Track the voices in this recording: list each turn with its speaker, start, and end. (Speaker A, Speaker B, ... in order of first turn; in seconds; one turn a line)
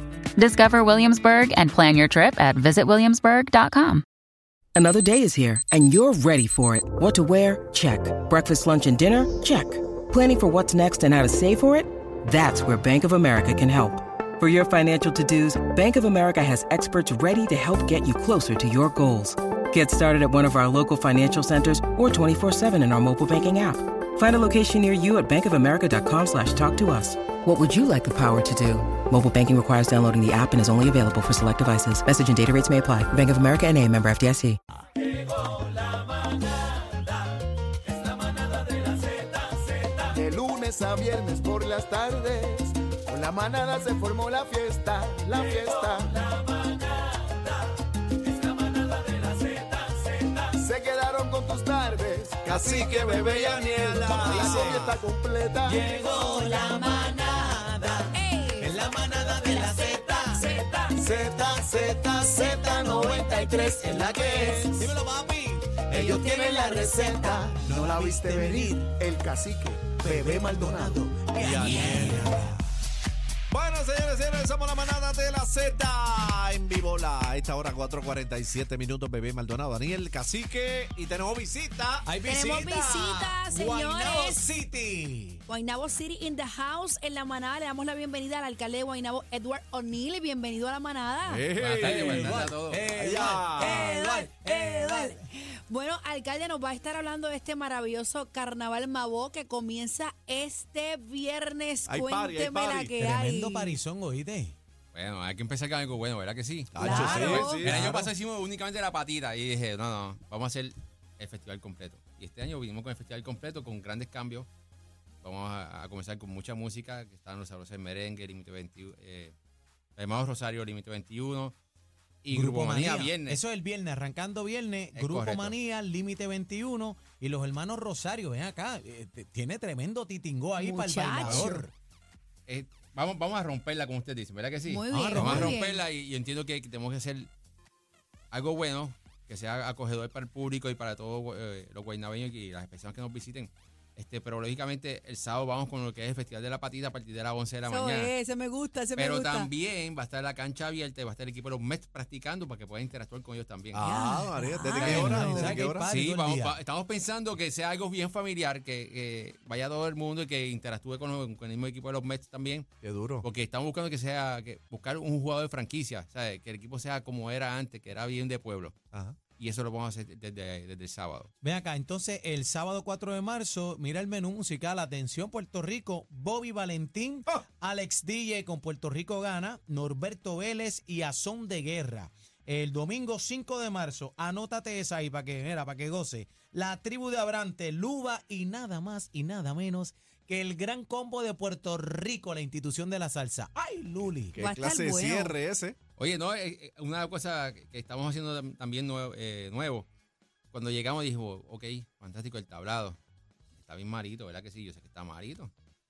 Speaker A: 0.4-4.0
Speaker B: 4.7-34.6
Speaker C: 40.1-46.4
Speaker C: 50.5-55.8
Speaker D: 52.4-55.0
Speaker E: 54.0-54.7
Speaker E: 55.6-68.9
Speaker F: 55.9-57.6
Speaker F: 58.1-58.9
Speaker F: 59.6-60.8
Speaker C: 60.9-64.9
Speaker C: 65.9-71.3
Speaker F: 66.1-67.4
Speaker E: 70.0-72.6
Speaker D: 71.3-72.5
Speaker D: 73.5-82.1
Speaker E: 82.0-85.4
Speaker F: 82.2-84.4
Speaker F: 85.5-91.5
Speaker D: 91.2-92.3
Speaker G: 91.6-92.8
Speaker E: 91.8-95.2
Speaker D: 92.9-94.0
Speaker F: 93.3-103.8
Speaker D: 101.8-103.0
Speaker E: 103.0-104.5
Speaker G: 104.9-114.5
Speaker D: 106.7-107.9
Speaker F: 106.8-107.6
Speaker E: 106.8-108.1
Speaker G: 115.2-119.3
Speaker G: 120.0-121.5
Speaker G: 122.2-123.4
Speaker E: 122.3-131.7
Speaker G: 124.9-125.5
Speaker F: 130.6-131.7
Speaker G: 131.2-131.6
Speaker G: 132.5-137.3
Speaker F: 134.7-135.8
Speaker E: 134.9-135.6
Speaker G: 138.3-148.1
Speaker F: 147.6-149.5
Speaker G: 148.9-153.8
Speaker D: 153.7-155.9
Speaker F: 153.8-155.6
Speaker E: 154.7-156.6
Speaker G: 155.8-162.7
Speaker D: 162.8-163.2
Speaker G: 163.2-168.8
Speaker D: 168.9-169.2
Speaker G: 169.3-171.3
Speaker E: 171.4-194.4
Speaker D: 194.3-195.8
Speaker F: 194.3-195.3
Speaker G: 196.0-199.9
Speaker G: 200.5-203.0
Speaker G: 203.6-205.5